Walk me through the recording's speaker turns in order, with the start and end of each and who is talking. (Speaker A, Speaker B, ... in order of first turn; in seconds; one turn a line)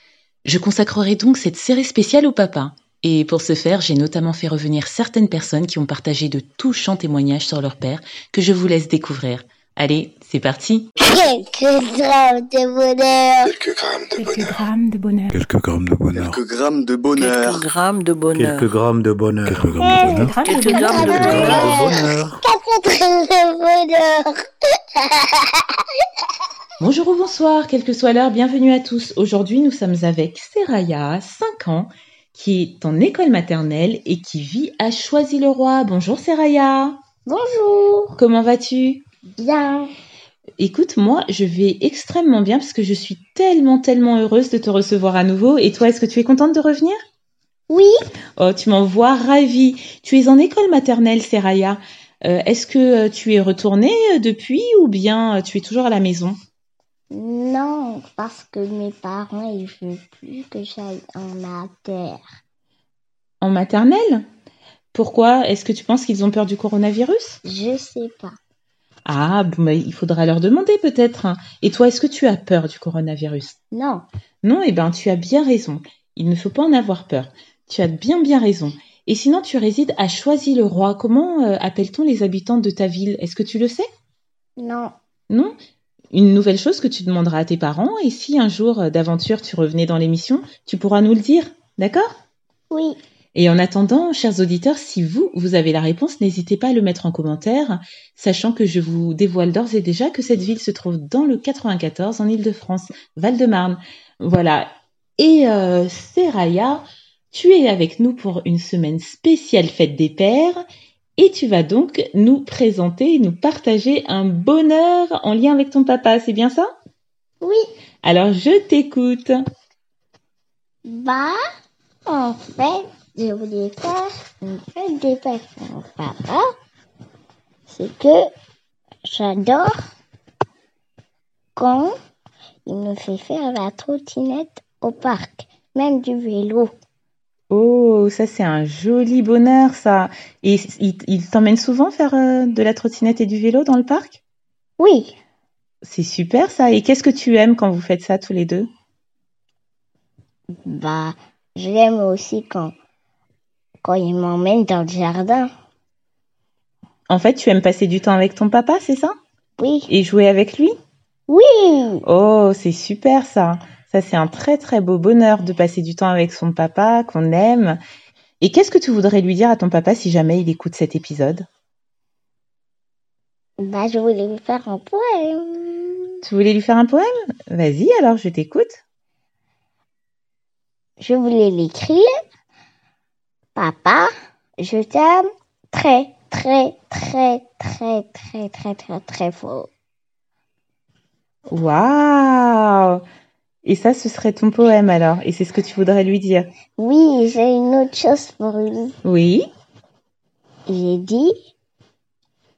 Speaker A: 0.5-10.9
Speaker B: 11.0-13.5
Speaker C: 13.4-14.5
Speaker D: 14.2-15.4
Speaker E: 15.3-16.4
Speaker C: 16.1-17.6
Speaker F: 17.2-18.7
Speaker G: 18.3-19.7
Speaker E: 19.4-20.4
Speaker B: 19.8-24.4
Speaker D: 20.2-21.0
Speaker F: 20.3-22.1
Speaker A: 20.4-21.6
Speaker G: 21.0-22.4
Speaker B: 25.0-25.6
Speaker A: 26.8-37.0
Speaker B: 37.3-38.2
Speaker A: 38.2-39.0
Speaker B: 39.4-39.9
Speaker A: 40.6-47.0
Speaker B: 47.7-47.9
Speaker A: 48.4-56.4
Speaker B: 57.1-62.3
Speaker A: 63.4-64.2
Speaker A: 64.9-67.4
Speaker B: 67.4-68.3
Speaker A: 69.0-73.5
Speaker B: 73.7-74.0
Speaker A: 74.4-83.9
Speaker B: 84.6-84.9
Speaker A: 85.3-85.5
Speaker A: 86.1-92.1
Speaker B: 92.7-93.0
Speaker A: 93.3-110.6
Speaker A: 111.2-116.7
Speaker A: 118.0-119.4
Speaker B: 120.9-121.4
Speaker B: 122.1-126.4
Speaker B: 127.7-128.2
Speaker B: 129.1-129.7
Speaker B: 131.6-131.9
Speaker B: 132.7-136.7
Speaker A: 137.5-144.2
Speaker B: 144.8-145.1
Speaker A: 145.8-148.7
Speaker B: 150.6-152.7
Speaker B: 153.8-155.5
Speaker A: 157.1-159.1
Speaker B: 159.6-159.9
Speaker A: 159.9-160.7
Speaker B: 161.3-162.0
Speaker A: 162.0-167.8
Speaker A: 168.4-171.4
Speaker B: 173.6-176.1
Speaker A: 176.2-178.8
Speaker B: 181.0-182.1
Speaker B: 183.5-184.1
Speaker B: 184.6-189.7
Speaker A: 191.5-193.0
Speaker A: 193.6-196.5
Speaker B: 196.8-198.9
Speaker A: 199.0-199.4
Speaker B: 200.7-201.3